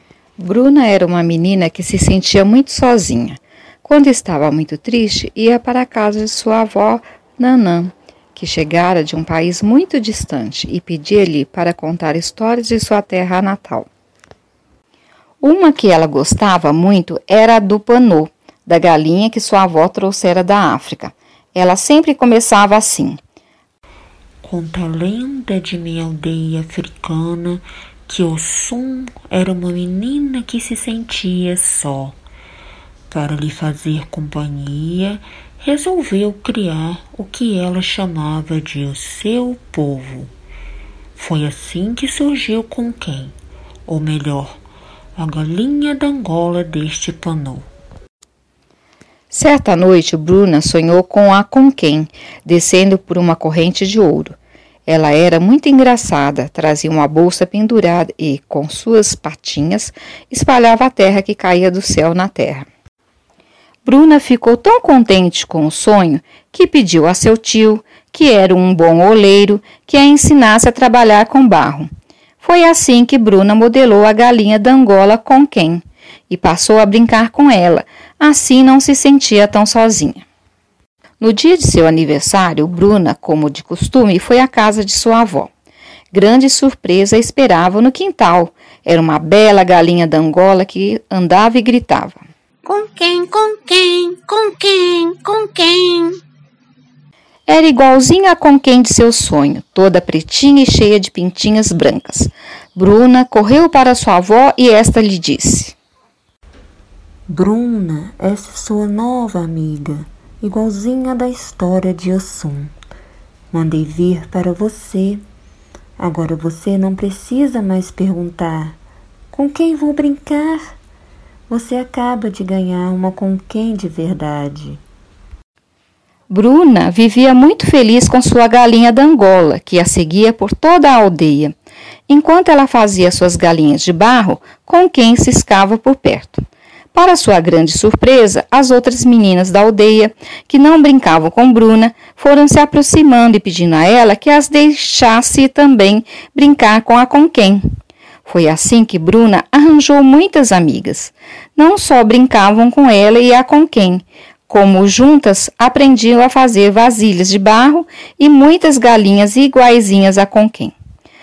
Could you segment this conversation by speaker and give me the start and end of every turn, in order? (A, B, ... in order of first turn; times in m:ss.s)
0:00.4-0:13.9 A
0:15.4-0:23.2 A
0:24.4-0:32.2 B
0:33.1-0:40.3 B
0:41.2-0:43.3 B
0:43.9-0:44.6 B
0:45.2-0:47.7 B
0:49.3-0:54.3 A
0:54.9-1:02.7 A
1:03.8-1:11.9 A
1:12.4-1:20.2 A
1:21.2-1:25.5 A
1:26.1-1:32.2 A
1:32.6-1:36.2 C
1:37.5-1:45.8 A
1:47.3-1:52.7 B
1:53.5-1:55.2 B
1:56.0-1:58.8 B
1:59.3-2:00.8 B
2:01.5-2:04.8 B
2:06.3-2:11.5 A
2:12.1-2:16.4 A
2:16.9-2:27.6 A
2:28.2-2:40.7 A